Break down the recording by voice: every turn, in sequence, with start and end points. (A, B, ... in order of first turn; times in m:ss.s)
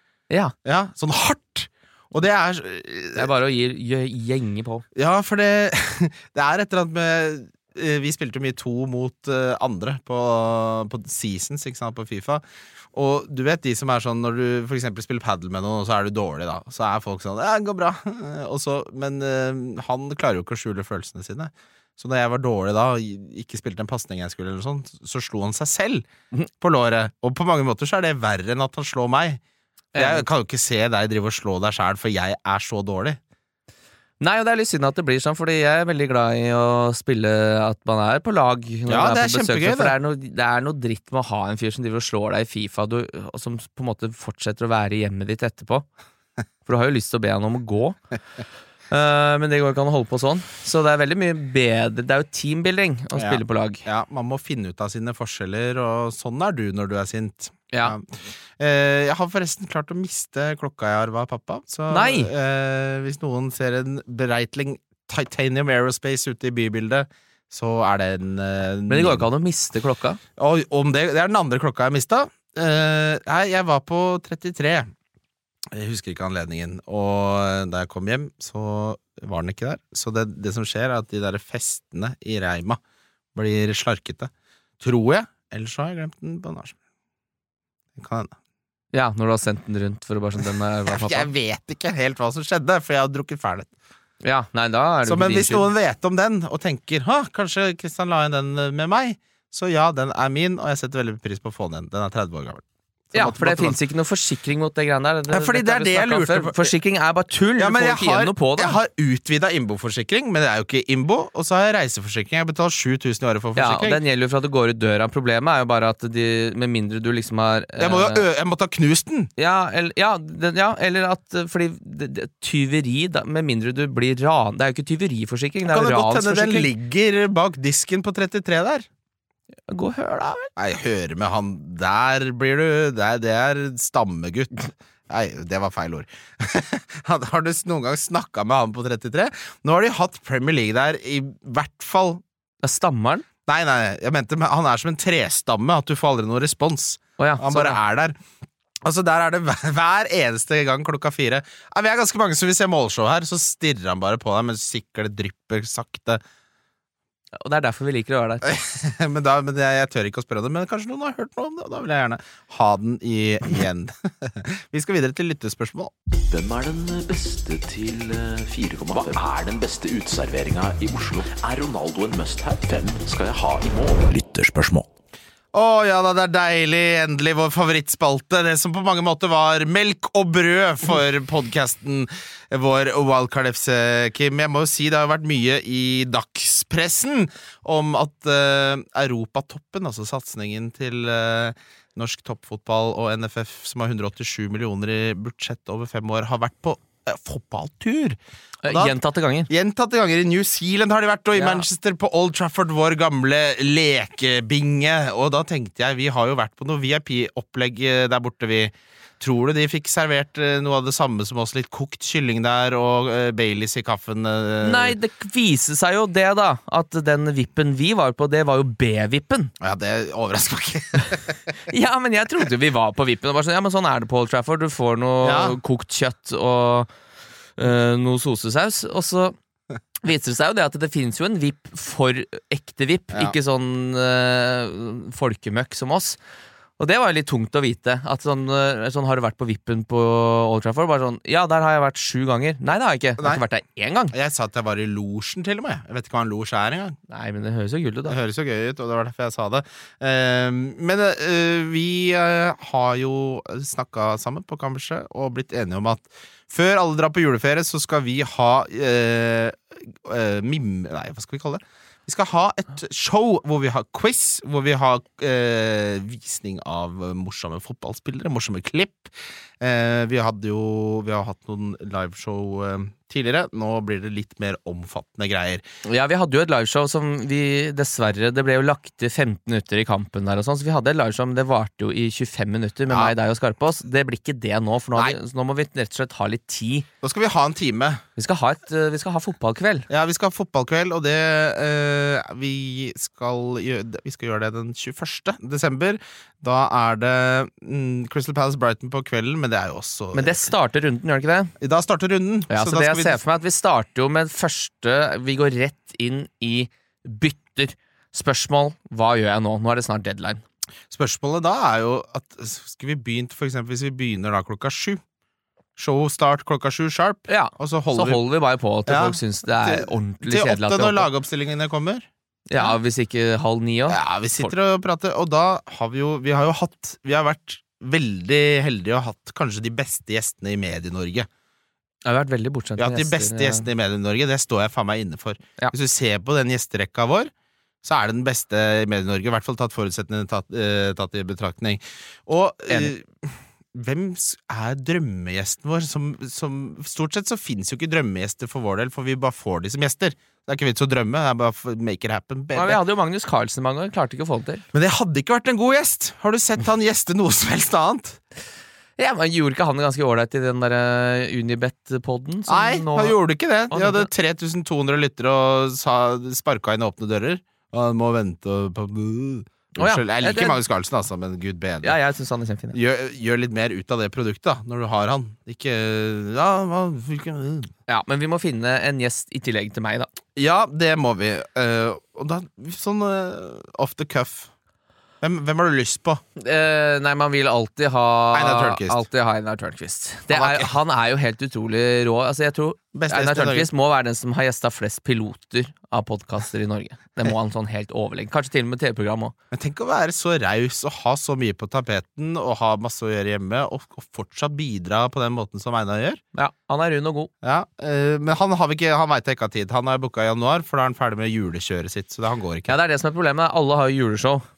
0:00.6-0:03.3 A
0:03.1-0:04.8 B
0:05.0-0:26.0 A
0:26.6-0:29.4 A
0:29.9-0:33.2 A
0:29.9-0:30.2 B
0:34.2-0:45.9 B
0:38.9-0:39.9 A
0:46.6-0:48.0 B
0:48.9-0:53.8 B
0:53.2-1:09.3 A
1:01.9-1:02.3 B
1:08.9-1:10.2 B
1:10.4-1:14.9 A
1:15.7-1:22.8 A
1:23.3-1:26.8 A
1:27.9-1:28.3 A
1:28.9-1:31.3 B
1:30.9-1:33.7 A
1:34.2-1:35.7 B
1:35.0-1:43.8 A
1:43.1-1:48.8 B
1:45.3-1:46.7 A
1:47.6-1:54.0 A
1:53.6-1:58.2 B
1:57.8-1:59.3 A
1:59.4-2:06.7 B
2:05.6-2:08.9 A
2:09.7-2:10.5 B
2:10.6-2:22.2 A
2:22.6-2:23.2 B
2:23.4-2:28.2 A
2:27.2-2:27.8 B
2:28.8-2:36.2 A
2:37.4-2:38.4 B
2:38.4-2:45.9 A
2:46.2-2:54.9 C
2:55.5-3:18.2 A
3:18.6-3:19.5 B
3:18.7-3:19.0 A
3:19.5-3:35.0 A
3:21.3-3:21.6 B
3:34.6-3:39.5 B
3:39.6-3:41.4 A
3:41.7-3:46.9 B
3:45.2-3:45.6 A
3:47.6-3:49.4 B
3:50.0-3:56.2 B
3:56.8-4:04.1 B
4:04.1-4:07.0 A
4:07.1-4:08.2 B
4:08.1-4:35.6 A
4:35.8-4:46.8 B
4:47.0-4:48.0 A
4:48.2-4:49.9 B
4:49.9-5:00.5 A
5:00.1-5:01.5 B
5:01.6-5:03.2 A
5:02.5-5:10.4 B
5:10.9-5:15.0 A
5:15.8-5:18.2 A
5:17.3-5:21.1 B
5:18.9-5:22.8 A
5:22.5-5:24.5 B
5:23.9-5:31.3 A
5:32.0-5:33.7 B
5:32.8-5:37.3 A
5:37.8-5:52.8 A
5:52.5-5:54.6 B
5:54.7-5:58.2 A
5:59.0-6:03.2 B
6:02.5-6:12.0 A
6:03.7-6:04.1 B
6:09.8-6:10.6 B
6:11.8-6:12.8 B
6:12.7-6:17.7 A
6:17.9-6:20.1 B
6:20.4-6:24.5 A
6:25.2-6:26.2 A
6:26.4-6:39.3 B
6:28.3-6:29.0 A
6:30.3-6:30.7 A
6:32.9-6:33.7 A
6:39.5-6:46.2 A
6:46.3-6:47.3 B
6:47.4-6:52.8 A
6:52.7-6:54.4 B